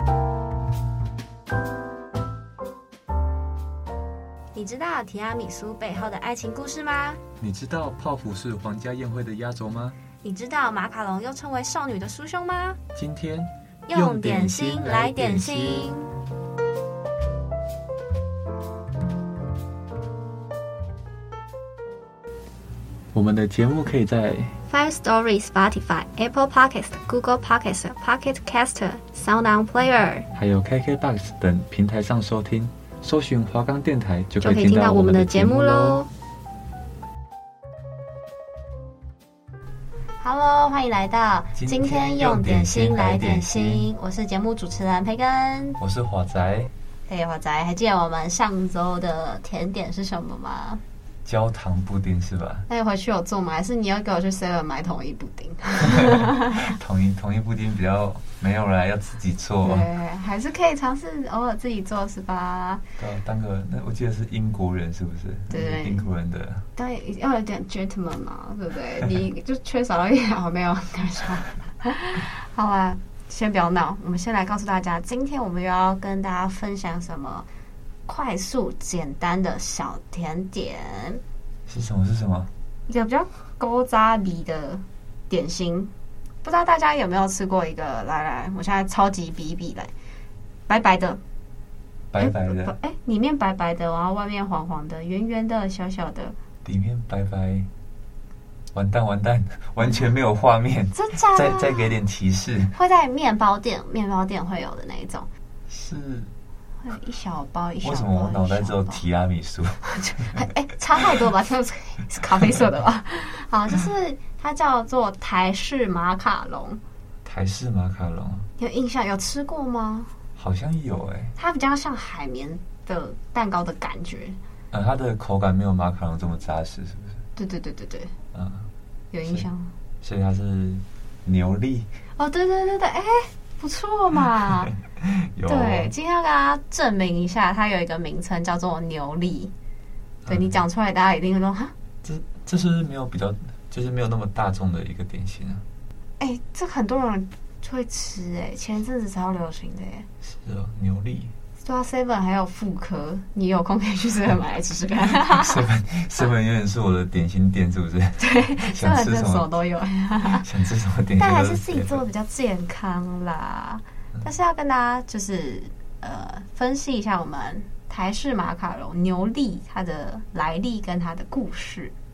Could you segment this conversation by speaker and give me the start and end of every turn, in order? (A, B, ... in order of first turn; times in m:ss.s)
0:04.6-0:07.2 A
0:07.4-0:10.0 B
0:10.2-0:12.8 A
0:13.0-0:15.9 B
0:13.9-0:16.1 A
0:23.1-0:24.6 B
0:24.7-0:30.3 A
0:30.4-0:36.0 B
0:34.4-0:36.1 A
0:40.2-0:45.8 A
0:41.6-0:43.9 B
0:45.8-0:46.7 B
0:47.1-0:50.8 A
0:51.2-0:52.7 B
0:52.7-0:56.7 A
0:55.9-0:59.9 B
0:59.6-1:02.8 A
1:03.0-1:06.6 B
1:05.5-1:06.1 A
1:06.8-1:17.5 A
1:18.1-1:21.2 A
1:21.7-1:22.5 B
1:22.9-1:25.9 A
1:26.4-1:29.9 A
1:30.7-1:31.2 A
1:32.1-1:32.7 B
1:32.2-1:36.4 A
1:36.6-1:37.7 B
1:38.7-1:42.7 B
1:40.9-1:41.9 A
1:42.7-1:45.3 A
1:45.7-1:46.3 B
1:46.8-1:49.0 A
1:47.8-1:49.8 B
1:49.9-1:56.8 A
1:57.2-1:58.5 B
1:58.6-2:00.1 A
2:00.4-2:01.3 B
2:01.4-2:04.4 A
2:04.7-2:07.2 B
2:07.4-2:08.1 A
2:08.3-2:08.7 B
2:09.1-2:09.7 A
2:10.0-2:11.9 B
2:12.2-2:14.7 A
2:14.8-2:15.9 B
2:15.5-2:19.5 A
2:20.2-2:20.5 B
2:20.3-2:21.7 A
2:22.0-2:25.6 B
2:26.2-2:30.1 A
2:30.2-2:31.3 B
2:31.6-2:35.6 A
2:35.2-2:39.5 B
2:38.2-2:40.5 A
2:40.4-2:42.0 B
2:41.2-2:51.9 A